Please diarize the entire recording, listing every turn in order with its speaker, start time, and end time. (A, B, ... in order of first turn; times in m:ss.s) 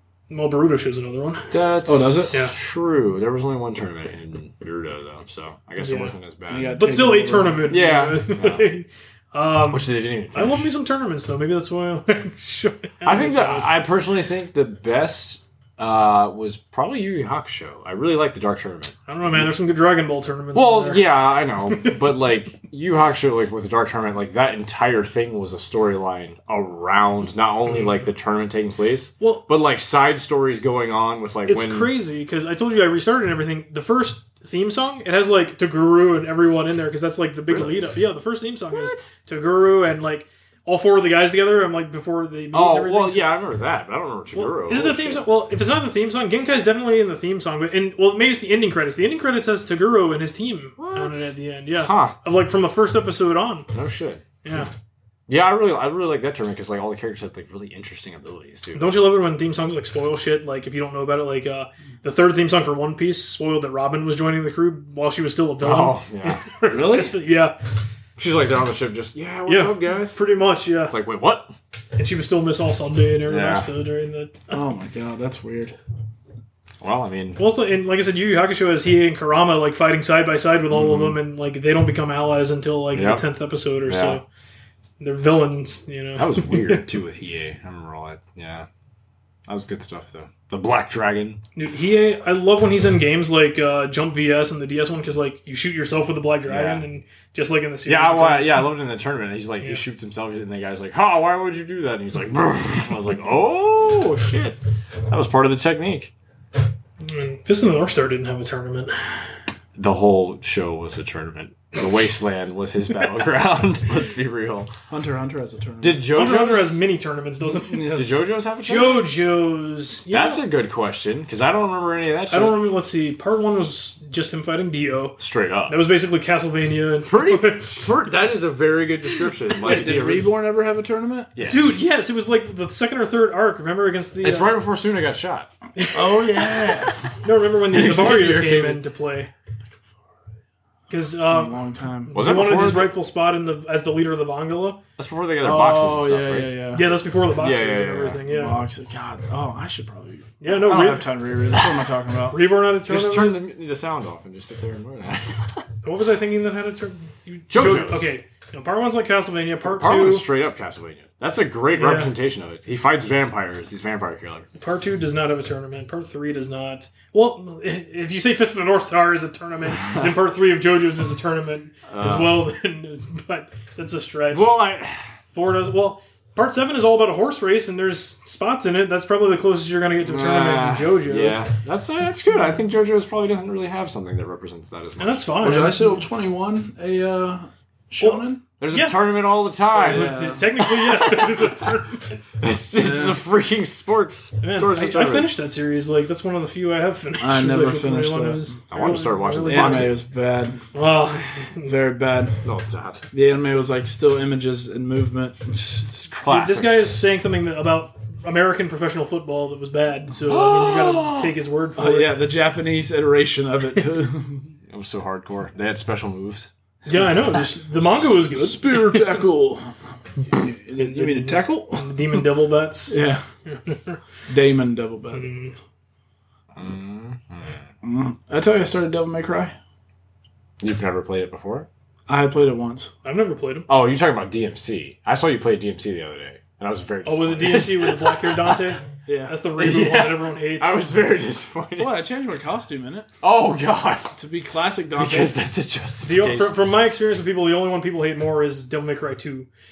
0:00.3-0:01.5 A
0:01.5-0:06.8 B
0:01.9-0:02.3 C
0:05.8-0:06.2 A
0:06.5-0:07.7 C
0:06.7-0:13.7 A
0:07.7-0:08.7 B
0:09.7-0:10.7 B
0:13.0-0:19.5 B
0:19.1-0:21.2 A
0:20.5-0:31.9 B
0:21.7-0:22.1 A
0:29.2-0:29.4 A
0:31.5-0:43.4 A
0:37.5-0:37.8 B
0:38.7-0:39.0 B
0:42.5-0:45.2 B
0:44.4-0:53.7 A
0:50.8-0:52.2 B
0:53.7-0:54.2 B
0:54.4-0:54.7 A
0:55.3-0:58.9 B
0:58.8-1:07.6 A
1:05.6-1:06.5 B
1:06.7-1:07.2 C
1:08.2-1:10.2 B
1:09.5-1:11.0 A
1:10.9-1:11.5 B
1:12.0-1:14.5 A
1:13.3-1:13.7 B
1:14.5-1:15.8 C
1:16.8-1:17.4 B
1:17.4-1:24.2 A
1:20.7-1:21.2 B
1:22.9-1:23.2 B
1:23.9-1:24.2 B
1:25.0-1:26.8 A
1:26.2-1:28.7 B
1:29.5-1:31.4 B
1:31.6-1:38.7 A
1:36.5-1:36.8 B
1:37.9-1:46.1 B
1:47.0-1:49.3 A
1:49.8-1:54.7 B
1:54.9-1:56.1 C
1:55.8-1:56.8 B
1:56.1-1:58.0 A
1:57.6-1:58.2 C
1:57.9-1:59.1 B
1:58.6-2:00.4 A
2:00.1-2:02.7 B
2:02.3-2:07.9 A
2:05.2-2:05.8 B
2:07.0-2:10.3 B
2:09.6-2:11.3 C
2:11.4-2:11.9 B
2:11.4-2:14.6 A
2:14.2-2:15.5 B
2:15.8-2:16.6 A
2:15.9-2:17.1 C
2:17.2-2:19.3 A
2:17.7-2:18.8 B
2:20.9-2:24.8 A
2:21.2-2:22.4 C
2:22.1-2:22.9 B
2:25.0-2:26.6 B
2:25.4-2:26.9 C
2:26.7-2:28.6 A
2:27.4-2:28.2 B
2:28.3-2:32.4 C
2:30.4-2:31.2 A
2:32.3-2:33.4 A
2:32.9-2:35.6 B
2:35.8-2:40.3 A
2:37.5-2:38.1 B
2:39.6-2:44.5 B
2:41.7-2:42.1 A
2:44.6-2:54.7 A
2:51.9-2:52.4 B
2:54.3-2:55.1 B
2:55.3-3:01.4 A
3:00.0-3:05.5 B
3:05.0-3:05.9 A
3:05.4-3:08.4 C
3:08.0-3:09.1 A
3:08.6-3:11.3 B
3:09.8-3:12.2 A
3:09.8-3:10.5 C
3:12.4-3:15.3 B
3:12.8-3:13.2 C
3:14.4-3:20.0 A
3:17.2-3:18.6 C
3:18.7-3:20.0 B
3:19.4-3:20.6 C
3:20.7-3:21.8 A
3:21.6-3:22.4 C
3:22.4-3:23.1 B
3:23.1-3:26.1 C
3:26.1-3:26.9 B
3:26.3-3:32.2 A
3:30.3-3:31.3 B
3:31.8-3:34.5 C
3:34.7-3:36.5 B
3:36.9-3:39.2 A
3:37.8-3:39.7 C
3:40.3-3:42.3 C
3:40.8-3:44.0 A
3:42.9-3:43.2 C
3:44.3-3:45.3 C
3:45.1-3:45.6 A
3:46.6-3:47.6 B
3:47.8-3:49.5 C
3:50.6-3:51.7 B
3:52.1-3:52.9 C
3:53.0-3:53.7 A
3:53.7-3:58.7 B
3:57.0-4:01.0 A
3:59.1-3:59.4 C
3:59.6-4:02.1 B
4:01.8-4:03.1 C
4:03.2-4:04.1 B
4:04.2-4:05.3 C
4:05.0-4:06.6 B
4:06.0-4:09.5 A